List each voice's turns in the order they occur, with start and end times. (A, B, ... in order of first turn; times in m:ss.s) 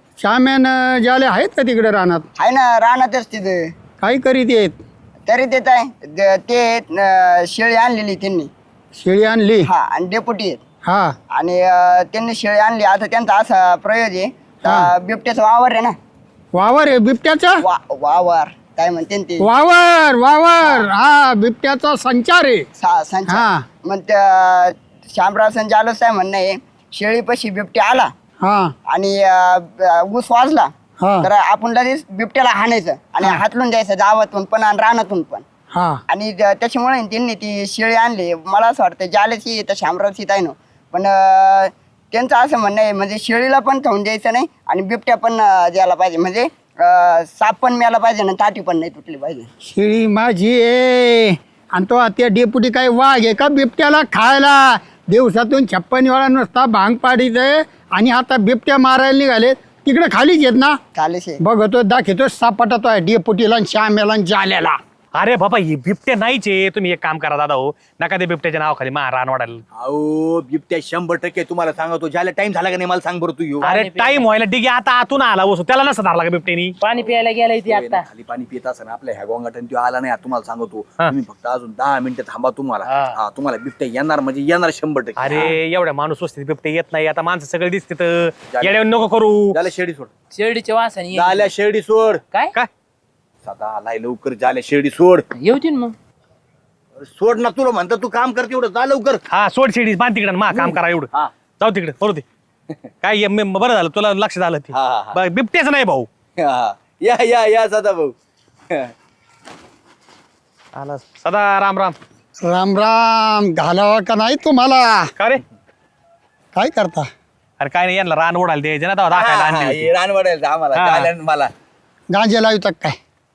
0:00.2-0:02.3 A
0:02.4-0:03.7 B
0:04.0-0:04.8 A
0:05.3-0:08.5 B
0:09.0-0:09.7 A
0:09.6-0:10.6 B
0:10.8-0:11.2 A
0:11.3-0:16.0 B
0:14.6-0:14.9 A
0:16.5-0:17.6 A
0:17.6-0:19.5 B
0:19.4-0:22.7 A
0:22.8-0:28.1 B
0:23.3-0:23.6 A
0:28.4-0:28.7 A
0:28.9-0:30.7 B
0:31.0-0:31.3 A
0:31.2-0:35.4 B
0:35.7-0:36.0 A
0:36.1-0:49.5 B
0:49.6-1:00.8 A
1:01.0-1:01.4 B
1:01.4-1:04.8 A
1:05.1-1:09.6 C
1:09.8-1:13.7 D
1:13.6-1:14.2 E
1:13.6-1:16.8 C
1:16.8-1:18.1 E
1:17.6-1:25.5 D
1:22.8-1:23.2 E
1:25.2-1:29.6 C
1:28.5-1:28.8 D
1:29.5-1:30.1 D
1:30.3-1:31.5 E
1:31.1-1:32.2 D
1:33.4-1:35.2 D
1:35.3-1:35.9 E
1:37.0-1:39.2 D
1:39.3-1:42.2 C
1:40.5-1:41.3 D
1:43.0-1:46.1 C
1:44.7-1:45.2 D
1:46.4-1:48.1 D
1:50.7-1:52.0 C
1:52.4-1:55.1 A
1:56.5-1:57.1 A
1:57.6-1:59.9 C
1:59.1-2:01.5 D
2:00.7-2:01.1 C
2:02.1-2:03.0 A